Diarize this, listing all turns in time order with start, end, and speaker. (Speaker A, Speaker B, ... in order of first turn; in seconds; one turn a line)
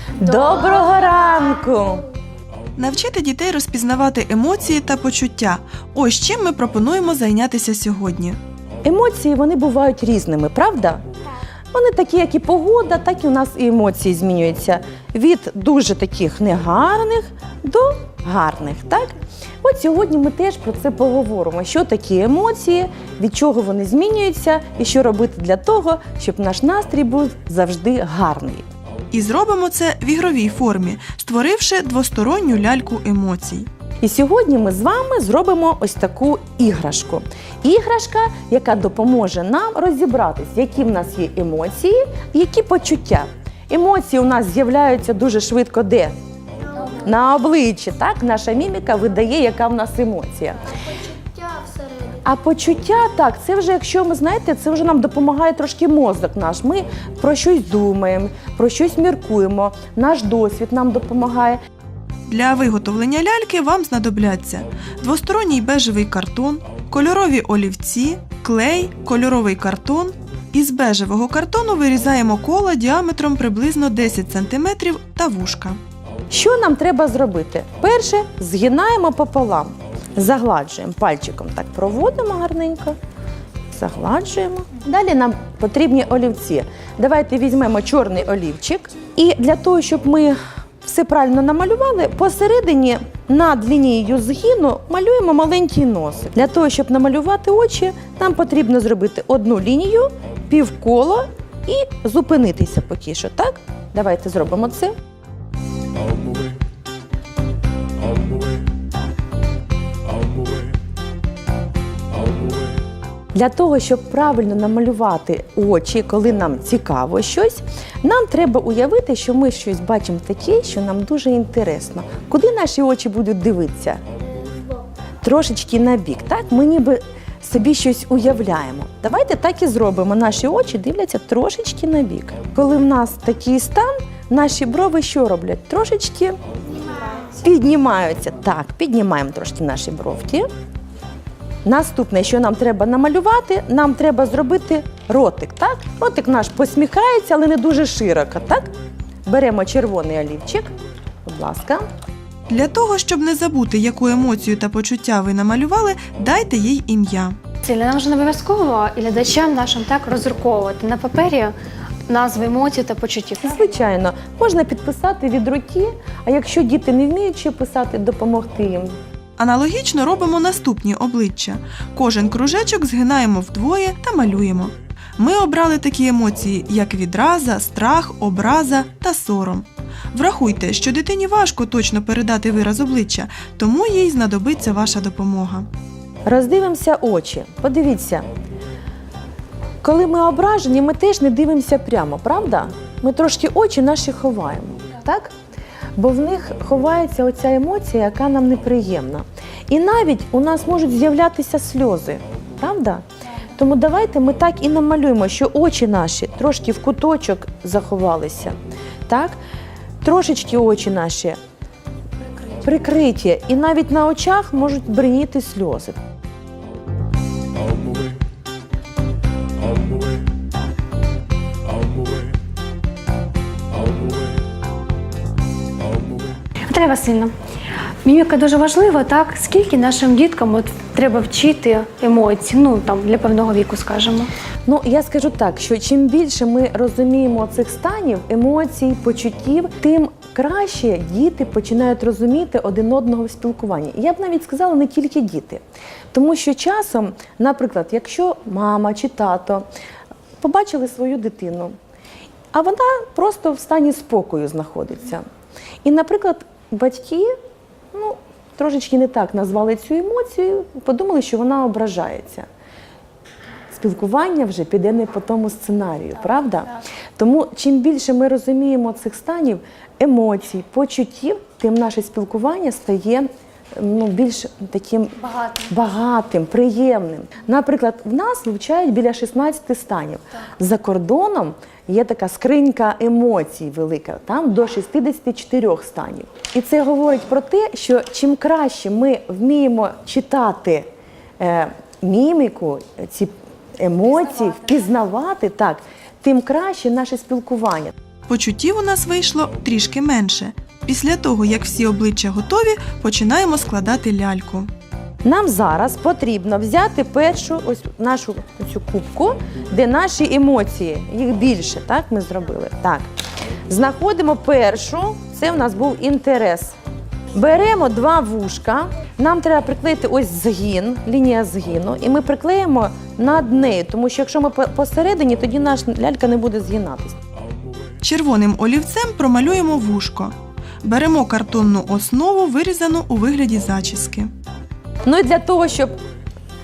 Speaker A: 0.2-2.1
Speaker B: 2.8-8.4
Speaker A: 8.8-11.0
Speaker A: 11.7-28.7
Speaker B: 29.1-33.7
Speaker A: 34.0-46.1
Speaker A: 46.9-50.7
Speaker A: 52.2-61.6
Speaker B: 62.3-75.8
Speaker A: 76.3-83.0
Speaker A: 83.7-105.0
Speaker A: 113.3-124.0
Speaker A: 125.2-136.4
Speaker A: 137.2-140.5
Speaker A: 141.6-148.7
Speaker A: 149.3-150.7
Speaker A: 151.2-151.8
Speaker B: 152.5-157.4
Speaker C: 157.6-161.5
Speaker C: 162.1-163.6
Speaker A: 163.4-169.0
Speaker B: 169.4-185.7
Speaker A: 186.3-188.3
Speaker A: 189.8-195.3
Speaker A: 196.0-208.6
Speaker A: 209.1-209.4
Speaker A: 210.0-211.4
Speaker A: 212.6-216.0
Speaker C: 226.7-227.3
Speaker C: 228.0-234.3
Speaker A: 234.7-249.7
Speaker A: 250.4-251.8
Speaker A: 252.5-255.2
Speaker A: 255.8-257.3
Speaker A: 257.9-262.5
Speaker A: 263.7-290.9
Speaker A: 291.4-297.9
Speaker B: 298.3-304.7
Speaker A: 305.2-313.1
Speaker A: 313.7-316.7
Speaker A: 317.3-327.2
Speaker B: 328.0-334.3
Speaker A: 335.0-336.0